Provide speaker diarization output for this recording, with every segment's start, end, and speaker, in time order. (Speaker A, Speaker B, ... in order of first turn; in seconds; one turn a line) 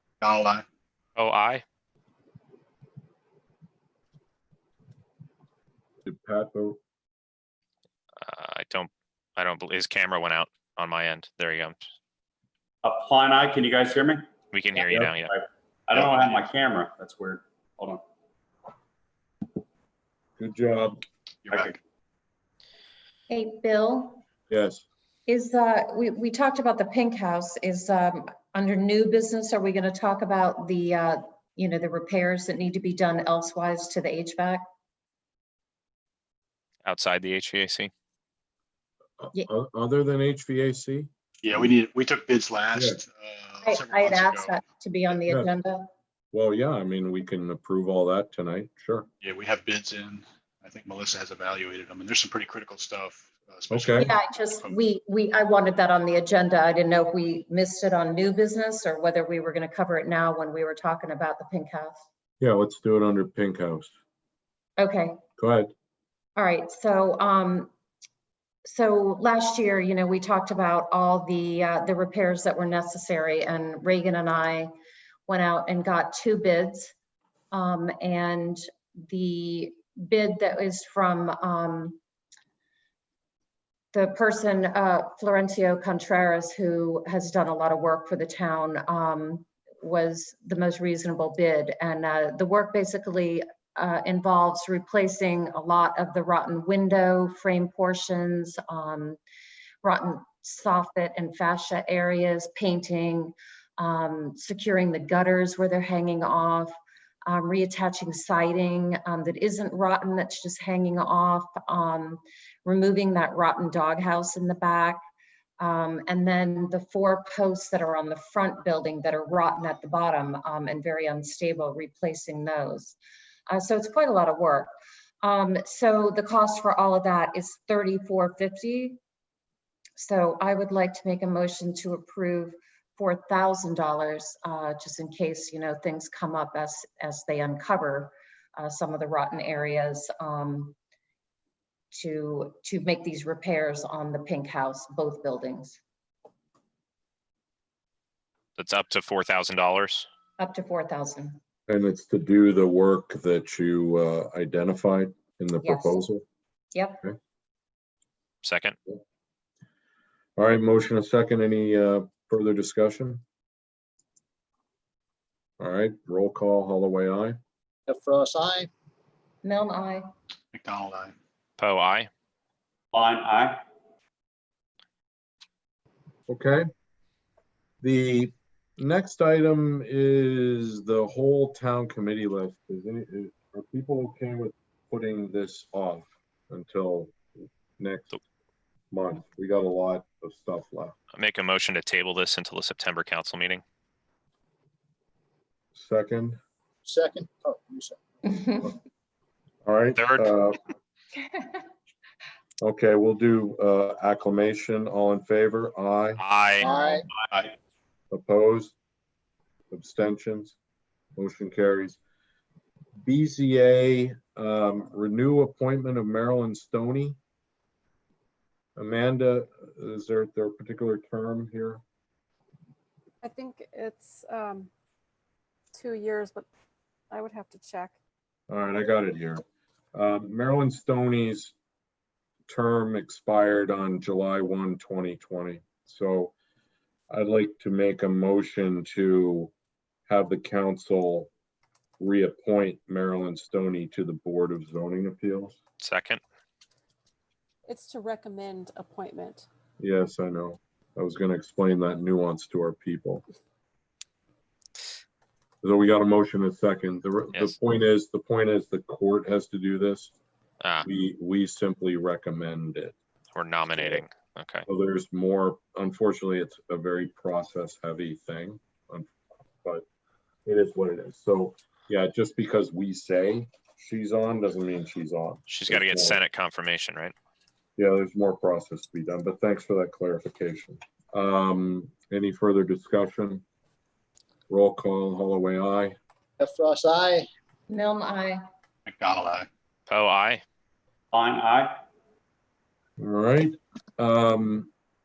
Speaker A: 0.2-0.6
Speaker B: 1.2-1.6
Speaker C: 6.0-6.8
Speaker B: 8.2-11.8
Speaker D: 12.8-14.3
Speaker B: 14.5-15.3
Speaker D: 14.8-18.0
Speaker B: 15.9-16.4
Speaker C: 20.4-21.0
Speaker A: 21.4-21.8
Speaker D: 21.5-21.8
Speaker E: 23.3-24.2
Speaker C: 24.5-24.8
Speaker E: 25.3-34.6
Speaker B: 36.9-37.9
Speaker C: 39.2-41.7
Speaker A: 41.4-44.6
Speaker C: 42.7-43.0
Speaker E: 43.6-45.9
Speaker C: 46.3-49.1
Speaker A: 49.2-54.8
Speaker C: 53.7-54.1
Speaker E: 54.0-62.1
Speaker C: 62.4-63.9
Speaker E: 64.8-65.2
Speaker C: 65.4-65.7
Speaker E: 66.4-67.7
Speaker E: 68.7-74.7
Speaker E: 75.3-76.9
Speaker E: 77.5-82.0
Speaker E: 83.9-99.2
Speaker E: 99.8-106.7
Speaker E: 107.2-115.0
Speaker E: 115.6-123.0
Speaker E: 123.5-129.0
Speaker E: 130.0-140.8
Speaker E: 141.9-145.8
Speaker B: 148.6-150.1
Speaker E: 150.4-151.4
Speaker C: 151.7-156.2
Speaker E: 155.6-156.0
Speaker E: 156.7-157.0
Speaker B: 158.4-158.8
Speaker C: 160.4-163.2
Speaker C: 165.6-167.4
Speaker F: 167.9-168.7
Speaker E: 169.4-170.1
Speaker A: 170.5-171.2
Speaker B: 171.6-172.1
Speaker D: 172.9-173.6
Speaker C: 176.3-176.7
Speaker C: 177.8-187.2
Speaker C: 187.8-188.2
Speaker C: 188.9-190.9
Speaker B: 191.1-193.6
Speaker C: 195.8-196.4
Speaker F: 196.8-198.0
Speaker C: 199.7-200.6
Speaker B: 200.0-200.3
Speaker C: 202.6-206.2
Speaker B: 206.2-206.7
Speaker F: 206.6-207.1
Speaker E: 206.6-206.9
Speaker C: 208.1-208.8
Speaker C: 209.7-210.6
Speaker C: 211.2-212.0
Speaker C: 213.0-217.2
Speaker C: 218.8-221.8
Speaker G: 223.2-224.7
Speaker G: 225.7-226.5
Speaker G: 227.1-227.9
Speaker C: 228.5-229.4
Speaker C: 229.9-231.5
Speaker C: 232.5-236.3
Speaker C: 237.1-239.5
Speaker C: 240.1-241.3
Speaker C: 242.0-245.6
Speaker B: 245.8-246.2
Speaker G: 247.7-249.5
Speaker C: 249.8-253.2
Speaker C: 255.6-260.1
Speaker C: 260.8-263.0
Speaker B: 263.4-264.7
Speaker C: 263.7-264.0
Speaker C: 264.7-269.9
Speaker C: 270.5-276.2
Speaker B: 275.5-277.1
Speaker C: 277.8-283.4
Speaker C: 284.5-286.0
Speaker F: 286.4-287.3
Speaker E: 287.7-288.4
Speaker A: 288.9-289.5
Speaker B: 289.9-290.4
Speaker D: 291.1-291.8
Speaker C: 293.0-294.7